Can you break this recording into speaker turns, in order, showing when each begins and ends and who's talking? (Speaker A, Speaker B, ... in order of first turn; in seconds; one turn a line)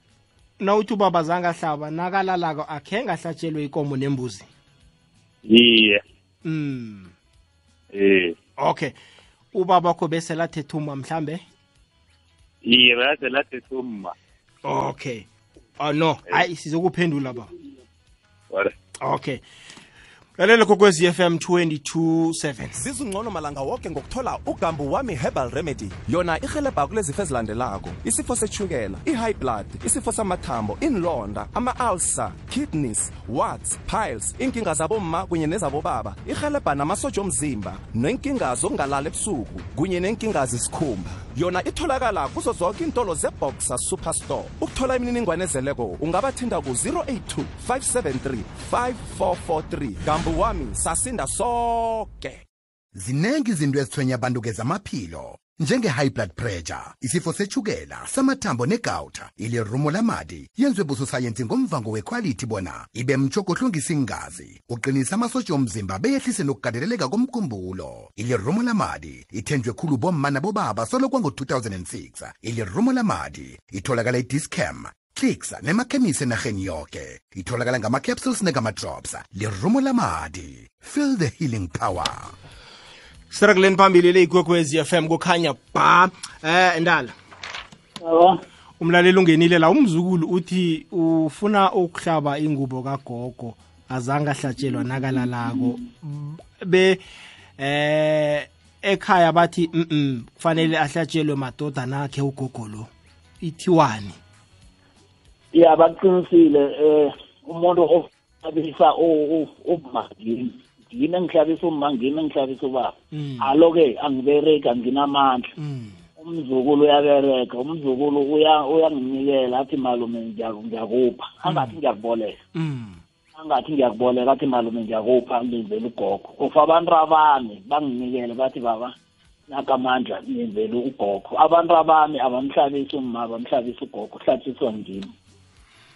Speaker A: 0.6-4.5
Speaker B: 5.4-6.0
Speaker A: 6.4-7.1
Speaker B: 7.9-8.4
Speaker A: 8.6-8.9
Speaker A: 9.5-11.4
Speaker B: 12.6-14.1
Speaker A: 14.6-15.3
Speaker A: 15.8-17.5
Speaker A: 19.0-19.4
Speaker A: 20.4-22.8
Speaker C: 22.7-52.4
Speaker D: 53.0-82.3
Speaker A: 83.3-87.1
Speaker E: 88.0-88.4
Speaker A: 88.8-97.0
Speaker A: 97.6-102.9
Speaker A: 103.4-104.2
Speaker E: 105.5-115.5
Speaker A: 113.1-113.5
Speaker A: 115.6-116.0
Speaker E: 116.2-122.4
Speaker A: 121.4-121.8
Speaker A: 122.5-123.0
Speaker E: 123.3-128.9
Speaker E: 129.5-135.1